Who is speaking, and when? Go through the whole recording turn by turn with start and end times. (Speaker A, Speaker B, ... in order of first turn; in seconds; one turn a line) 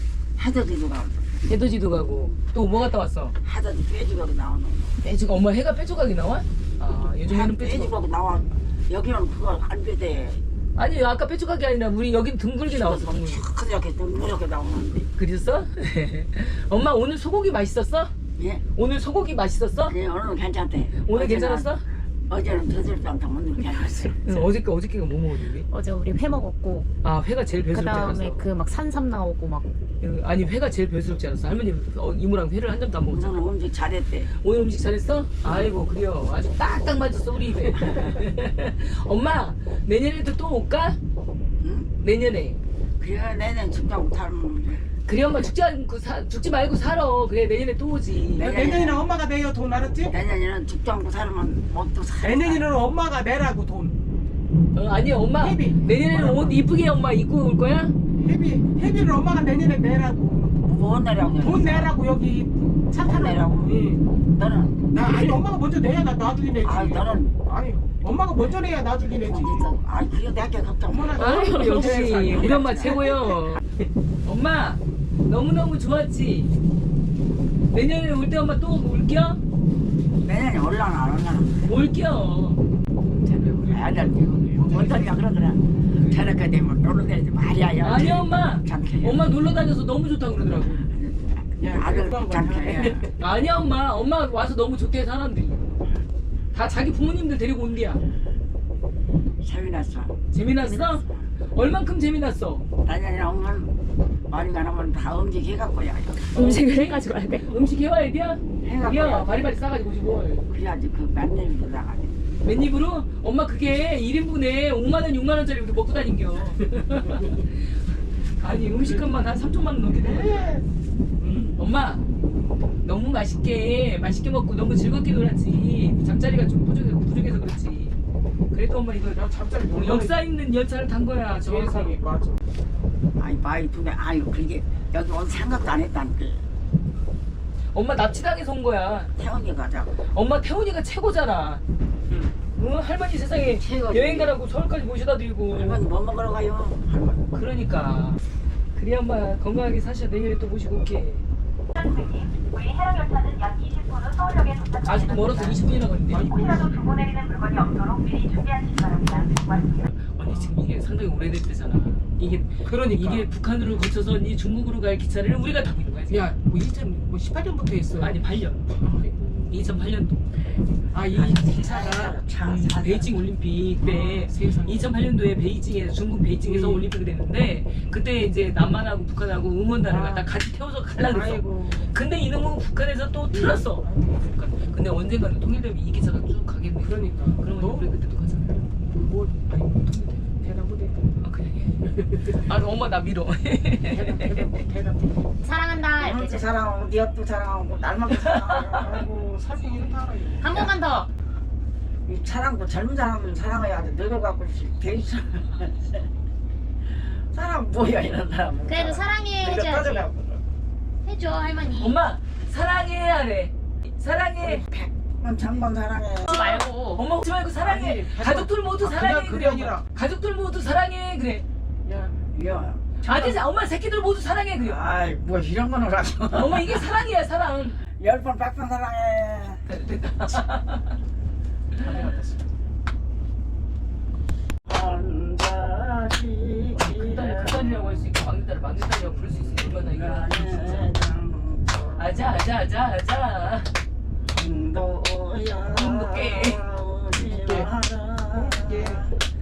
Speaker A: 0.4-1.3
Speaker B: 1.5-3.4
Speaker A: 3.4-4.9
Speaker B: 5.0-8.0
Speaker A: 7.2-10.4
Speaker B: 10.8-13.4
Speaker A: 12.7-15.1
Speaker B: 15.2-18.1
Speaker A: 18.4-18.6
Speaker B: 18.7-19.9
Speaker A: 19.9-21.7
Speaker B: 21.0-21.8
Speaker A: 22.3-24.4
Speaker B: 24.2-25.6
Speaker C: 25.7-26.9
Speaker B: 27.0-28.4
Speaker C: 27.7-29.7
Speaker B: 30.0-33.4
Speaker A: 33.1-34.3
Speaker B: 34.2-41.0
Speaker A: 41.6-41.9
Speaker B: 42.0-42.6
Speaker A: 43.0-44.8
Speaker B: 45.0-48.6
Speaker A: 48.4-49.1
Speaker D: 48.4-50.1
Speaker A: 50.0-52.7
Speaker D: 52.2-53.9
Speaker B: 54.7-57.9
Speaker D: 55.4-56.4
Speaker D: 58.2-60.5
Speaker A: 60.6-62.0
Speaker D: 61.4-64.0
Speaker A: 63.0-63.8
Speaker A: 64.3-65.4
Speaker D: 64.9-69.6
Speaker A: 66.5-67.4
Speaker A: 69.0-73.6
Speaker D: 70.9-72.2
Speaker B: 71.1-76.5
Speaker B: 77.7-79.4
Speaker A: 80.2-81.5
Speaker B: 81.6-82.6
Speaker A: 83.2-89.2
Speaker D: 83.6-85.0
Speaker B: 87.8-90.9
Speaker A: 90.6-93.1
Speaker D: 91.6-92.8
Speaker B: 92.9-95.7
Speaker B: 96.5-98.0
Speaker A: 99.4-100.9
Speaker B: 100.3-102.7
Speaker A: 102.8-103.7
Speaker A: 104.3-106.5
Speaker B: 106.3-110.4
Speaker C: 106.4-107.6
Speaker A: 108.6-109.5
Speaker A: 110.5-112.2
Speaker B: 112.4-117.5
Speaker B: 118.4-120.5
Speaker D: 120.0-120.6
Speaker B: 121.5-122.0
Speaker B: 122.8-128.0
Speaker B: 128.5-132.0
Speaker D: 129.1-130.2
Speaker D: 131.4-132.3
Speaker A: 133.2-136.4
Speaker B: 137.7-139.1
Speaker A: 139.2-140.0
Speaker B: 140.0-141.6
Speaker B: 142.6-145.8
Speaker A: 143.6-144.4
Speaker A: 145.5-147.3
Speaker B: 147.3-148.2
Speaker B: 148.7-151.3
Speaker E: 151.8-154.9
Speaker B: 154.8-156.6
Speaker D: 156.1-156.9
Speaker E: 156.9-159.2
Speaker B: 159.7-166.3
Speaker D: 162.6-163.2
Speaker D: 166.1-168.2
Speaker B: 167.9-168.8
Speaker D: 168.8-169.1
Speaker B: 169.5-170.2
Speaker D: 170.9-172.1
Speaker A: 171.1-173.1
Speaker B: 172.4-188.6
Speaker D: 173.8-174.9
Speaker D: 176.4-176.8
Speaker D: 179.8-180.2
Speaker D: 181.0-182.0
Speaker D: 183.3-184.2
Speaker D: 186.8-187.9
Speaker B: 189.5-190.3
Speaker D: 190.4-191.0
Speaker B: 191.2-194.6
Speaker D: 193.9-195.3
Speaker C: 195.4-196.5
Speaker A: 196.0-199.4
Speaker D: 198.8-200.4
Speaker C: 200.4-201.1
Speaker A: 202.1-206.0
Speaker A: 207.3-210.1
Speaker C: 208.7-210.1
Speaker C: 211.0-211.9
Speaker B: 211.7-214.6
Speaker A: 214.4-216.6
Speaker C: 216.3-217.0
Speaker B: 216.8-221.4
Speaker D: 217.5-219.8
Speaker D: 221.8-222.1
Speaker A: 222.2-223.0
Speaker B: 223.0-224.8
Speaker A: 224.6-226.9
Speaker B: 226.3-227.8
Speaker A: 227.9-229.6
Speaker B: 229.7-230.9
Speaker D: 231.8-232.3
Speaker A: 234.7-238.0
Speaker B: 236.7-240.9
Speaker A: 239.7-242.1
Speaker B: 241.9-243.7
Speaker A: 244.3-249.2
Speaker B: 245.7-246.7
Speaker D: 247.3-247.7
Speaker D: 248.3-249.0